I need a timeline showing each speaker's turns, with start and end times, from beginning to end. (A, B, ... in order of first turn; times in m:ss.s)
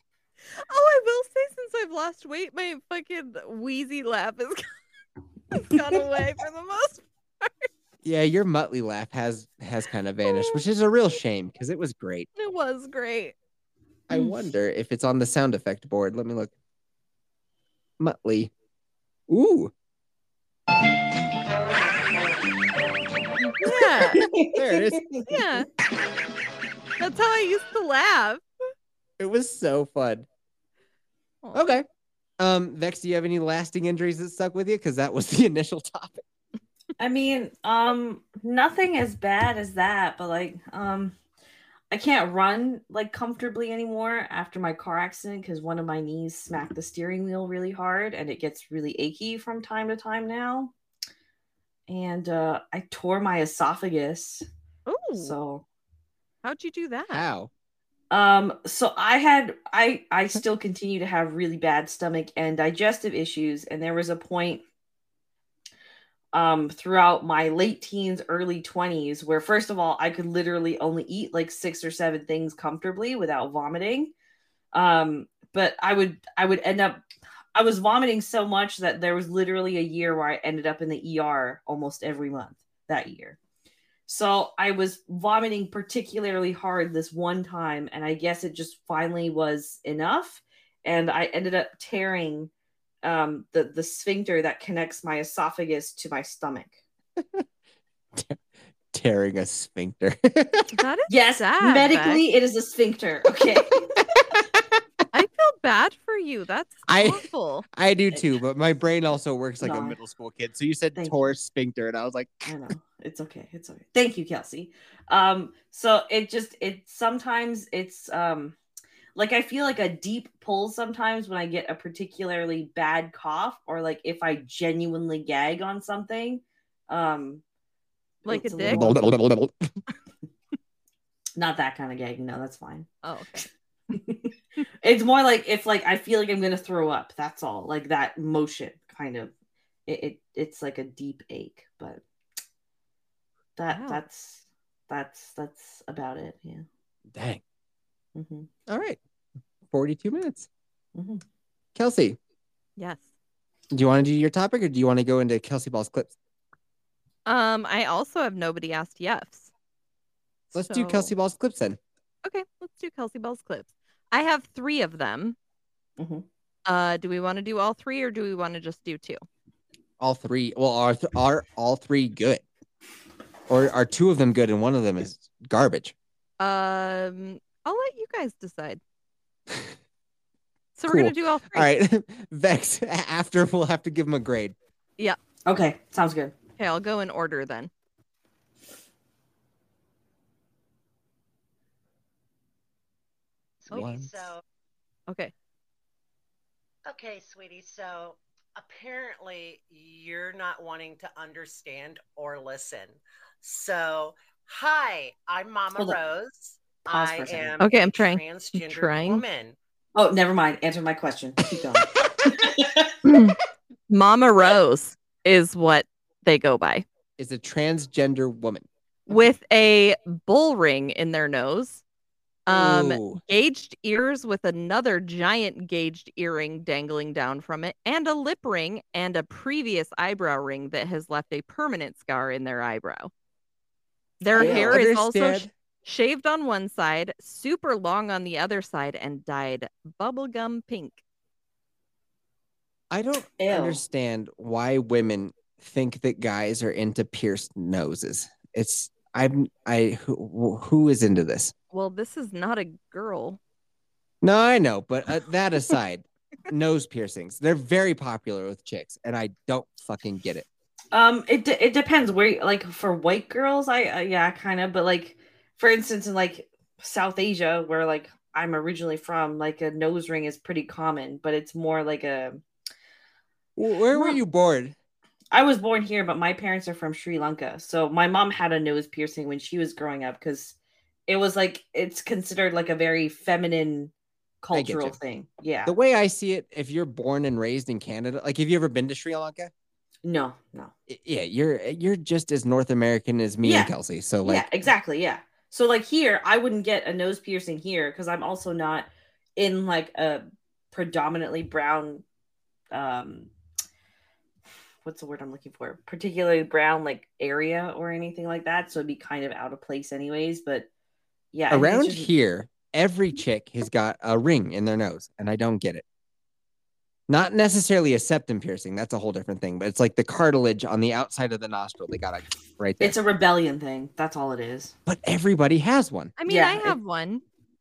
0:00.7-0:04.6 A
0:05.5-0:07.7 A
0:08.0-0:12.3 B
0:10.2-0:10.6 A
0:12.4-0:13.3 A
0:14.1-0:16.5 B
0:18.0-0:18.5 B
0:19.3-0:19.7 B
0:23.4-0:24.3 A
0:24.1-0:25.2 C
0:24.5-0:25.0 B
0:25.3-0:25.7 A
0:27.0-0:28.4 A
0:29.2-0:30.2 B
0:31.4-0:31.8 A
0:31.5-0:31.8 B
0:32.4-0:36.2 B
0:37.0-0:41.1 C
0:41.9-0:50.7 C
0:51.9-0:54.4 C
0:54.9-0:55.3 A
0:55.2-0:55.6 C
0:56.4-0:57.2 A
0:57.1-0:57.5 B
0:58.1-1:04.6 C
1:06.3-1:14.1 C
1:14.7-1:17.0 C
1:17.5-1:23.4 C
1:24.1-1:32.5 C
1:33.0-1:36.8 C
1:37.2-1:37.4 B
1:38.9-1:40.7 B
1:40.7-1:42.2 A
1:41.1-1:44.0 C
1:44.3-1:44.6 B
1:45.1-1:47.6 A
1:46.9-1:52.5 B
1:49.6-1:50.0 C
1:51.0-1:51.3 C
1:52.4-1:58.5 C
1:59.1-2:07.4 C
2:08.2-2:09.0 C
2:08.2-2:08.8 A
2:08.6-2:09.5 B
2:11.4-2:12.9 C
2:13.0-2:13.4 A
2:13.9-2:19.3 C
2:19.9-2:22.0 C
2:23.6-2:26.6 C
2:23.7-2:24.0 A
2:27.1-2:27.4 B
2:28.1-2:28.5 C
2:28.7-2:29.0 B
2:29.7-2:30.5 B
2:30.9-2:31.2 C
2:31.7-2:32.2 B
2:32.8-2:33.0 A
2:33.7-2:36.1 B
2:37.2-2:39.5 A
2:40.5-2:41.1 A
2:40.5-2:41.8 B
2:42.2-2:45.4 A
2:46.0-2:46.2 C
2:46.6-2:49.2 A
2:50.0-2:52.4 B
2:53.5-2:55.9 B
2:56.4-2:58.8 A
3:00.8-3:01.7 A
3:00.9-3:04.6 B
3:05.4-3:06.3 C
3:06.6-3:07.7 A
3:13.6-3:14.4 D
3:13.7-3:14.3 B
3:15.1-3:15.3 A
3:16.8-3:29.6 D
3:26.8-3:27.6 C
3:27.6-3:29.2 A
3:29.9-3:33.0 C
3:33.0-3:33.4 A
3:33.9-3:36.8 A
3:37.2-3:38.7 B
3:39.1-3:41.8 A
3:42.5-3:53.1 A
3:42.5-3:43.2 B
3:54.2-4:01.0 A
3:54.3-3:55.5 B
3:54.4-3:54.7 C
4:02.9-4:11.5 B
4:03.4-4:03.8 C
4:11.7-4:13.4 A
4:14.2-4:20.4 B
4:20.9-4:32.4 C
4:33.6-4:34.8 B
4:33.9-4:34.2 C
4:35.3-4:40.6 C
4:41.1-4:45.7 C
4:44.5-4:45.0 B
4:45.6-4:49.5 B
4:50.0-4:50.7 C
4:50.9-4:54.5 B
4:53.4-5:02.0 C
5:02.7-5:03.3 C
5:04.8-5:10.7 C
5:11.3-5:12.1 C
5:11.5-5:15.8 B
5:17.1-5:23.0 B
5:22.8-5:24.7 C
5:24.9-5:26.1 B
5:26.2-5:27.2 A
5:26.3-5:26.8 C